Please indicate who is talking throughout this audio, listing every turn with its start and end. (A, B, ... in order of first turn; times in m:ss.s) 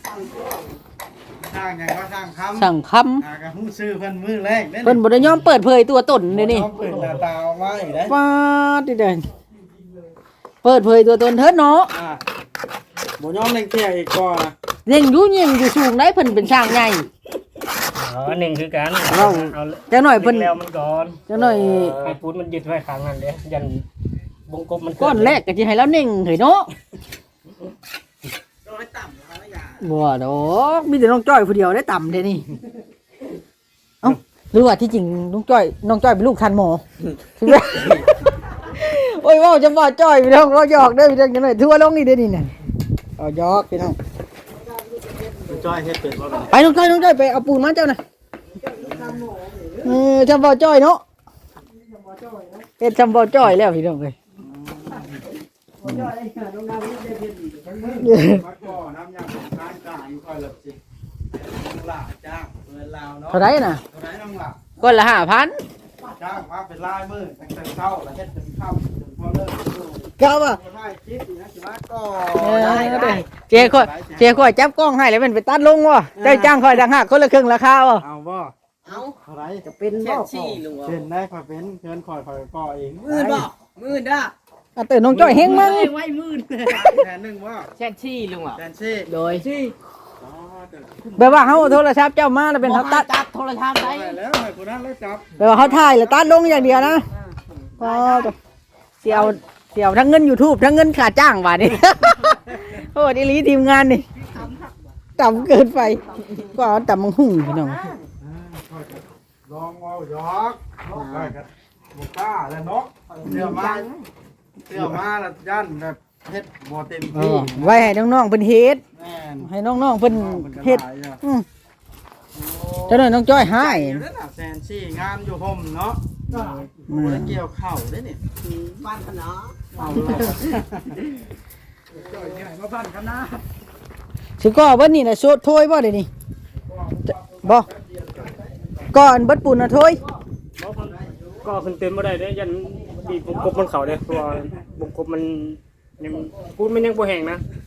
0:01.4-0:05.0 A
0:02.6-0:03.2 B
0:04.8-0:06.7 B
0:06.3-0:08.2 A
0:08.1-0:09.2 B
0:10.6-0:11.9 B
0:11.9-0:12.2 A
0:13.2-0:14.5 A
0:14.9-0:17.1 B
0:18.0-0:23.8 C
0:19.1-0:20.6 B
0:21.3-0:22.0 B
0:24.5-0:25.4 C
0:25.0-0:26.7 B
0:28.7-0:29.8 D
0:29.8-0:32.5 B
0:34.0-0:36.8 B
0:37.4-0:42.5 B
0:43.2-0:44.0 B
0:44.7-0:45.7 D
0:45.5-0:46.6 A
0:46.5-0:48.0 B
0:48.6-0:50.0 D
0:48.8-0:49.3 A
0:49.8-0:51.0 B
0:51.9-0:52.7 D
0:52.8-0:54.2 B
0:54.4-0:55.2 A
0:55.8-0:58.0 D
0:55.8-0:56.1 B
0:57.8-1:00.8 A
0:58.0-0:58.4 B
1:01.3-1:04.6 A
1:03.3-1:03.8 B
1:04.8-1:05.6 B
1:06.0-1:14.5 A
1:10.2-1:10.6 B
1:12.3-1:18.0 B
1:12.5-1:13.2 D
1:16.2-1:16.6 A
1:18.0-1:23.2 A
1:18.9-1:19.1 D
1:19.7-1:21.0 D
1:20.0-1:20.6 C
1:23.1-1:24.3 D
1:23.1-1:23.5 B
1:24.8-1:26.0 B
1:25.1-1:25.9 A
1:25.4-1:27.0 D
1:26.7-1:27.7 A
1:27.8-1:29.8 D
1:28.6-1:29.1 A
1:30.2-1:31.7 A
1:31.2-1:33.1 B
1:32.6-1:34.2 D
1:33.8-1:36.0 A
1:35.4-1:37.1 B
1:36.3-1:38.3 D
1:37.8-1:38.4 B
1:39.0-1:44.1 B
1:44.3-1:44.7 D
1:45.2-1:47.9 B
1:45.9-1:46.6 D
1:47.5-1:48.0 D
1:48.2-1:53.9 A
1:50.9-1:51.4 D
1:53.1-1:54.1 D
1:54.6-1:58.0 A
1:57.1-1:58.8 B
1:58.9-1:59.5 A
1:59.4-2:01.5 B
2:00.0-2:01.2 A
2:02.4-2:08.2 A
2:02.9-2:04.0 B
2:06.3-2:06.6 D
2:06.9-2:07.4 B
2:08.4-2:10.2 D
2:09.7-2:11.0 A
2:09.8-2:10.4 B
2:11.9-2:13.4 A
2:14.4-2:16.1 B
2:16.6-2:18.6 A
2:18.9-2:20.0 B
2:20.6-2:27.4 C
2:20.7-2:21.5 A